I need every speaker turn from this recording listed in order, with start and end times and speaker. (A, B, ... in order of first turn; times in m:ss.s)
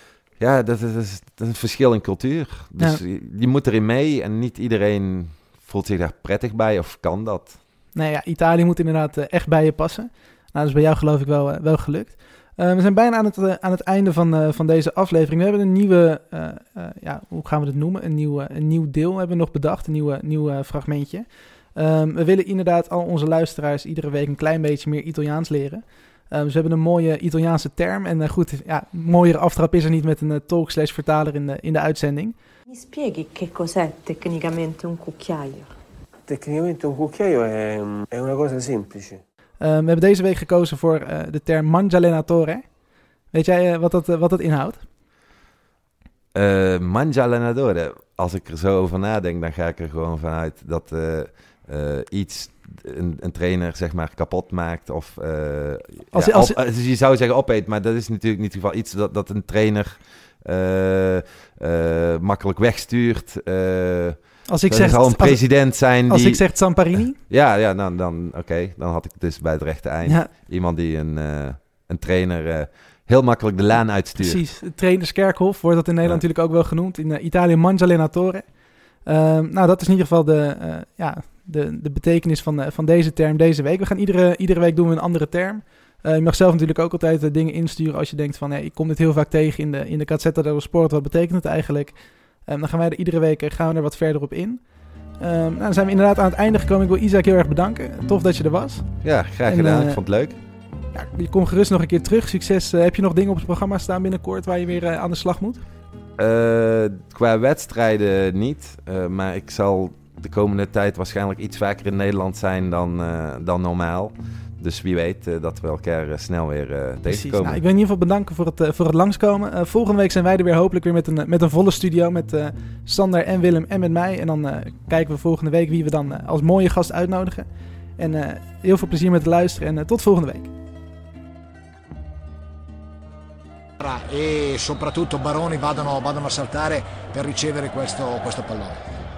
0:00.4-0:07.6 A
0:07.9-0:32.3 B
0:32.7-0:35.7 C
0:36.3-0:39.2 D
0:39.6-0:42.8 B
0:43.3-0:44.8 B
0:46.3-1:14.4 A
0:56.1-0:56.6 B
1:04.5-1:07.2 B
1:14.2-1:34.6 B
1:35.2-1:38.9 B
1:39.0-1:40.4 A
1:39.4-1:40.0 B
1:40.9-1:45.6 B
1:46.2-1:57.6 A
1:57.1-2:07.5 B
2:08.0-2:10.5 B
2:13.8-2:18.8 E